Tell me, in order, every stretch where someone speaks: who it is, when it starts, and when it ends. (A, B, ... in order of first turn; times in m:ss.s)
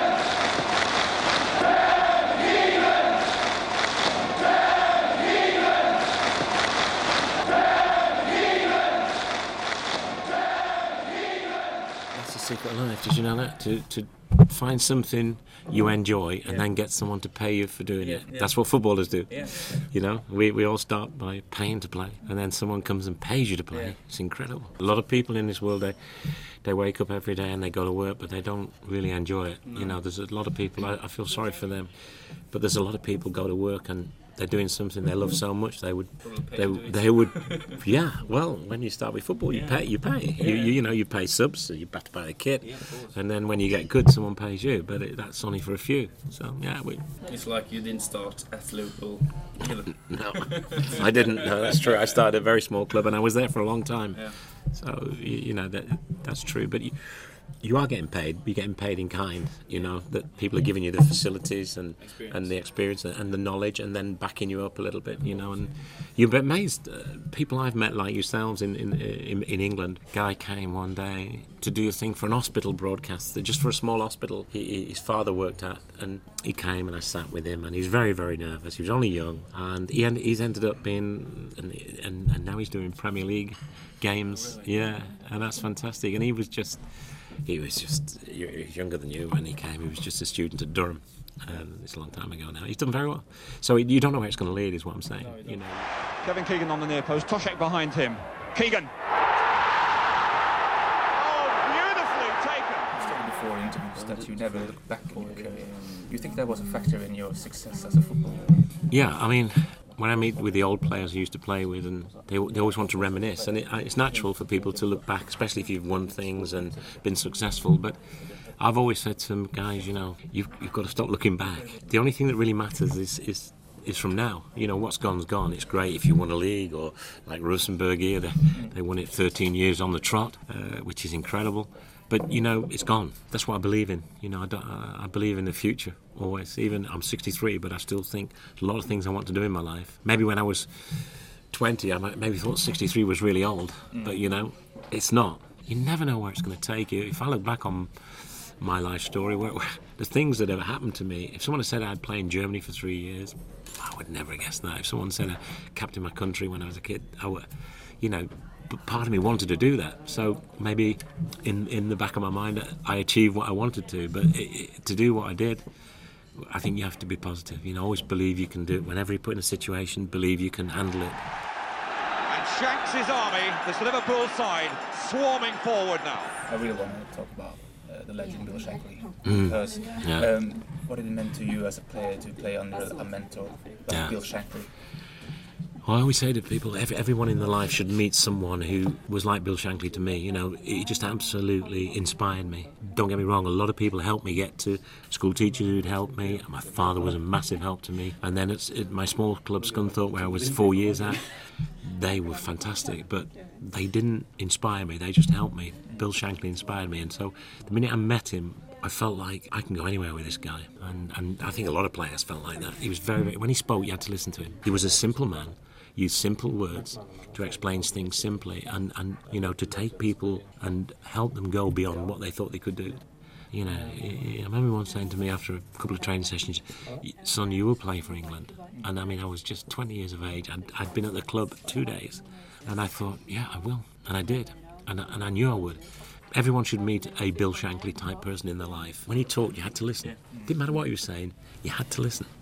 0:12.1-0:47.1 A
0:36.3-0:37.8 B
0:39.5-0:39.8 B
0:40.4-0:40.7 B
0:42.7-0:43.0 B
0:47.2-0:50.9 B
0:49.8-1:35.9 A
0:51.5-0:52.1 B
1:36.2-1:38.9 C
1:41.1-1:43.0 C
1:42.9-1:48.6 D
1:44.0-1:45.8 B
1:48.9-2:45.8 A
1:53.4-1:55.2 D
2:46.3-2:51.2 A
2:52.3-2:56.4 C
2:56.4-3:04.7 D
2:59.2-3:00.4 A
3:03.9-3:04.2 A
3:05.8-4:02.3 A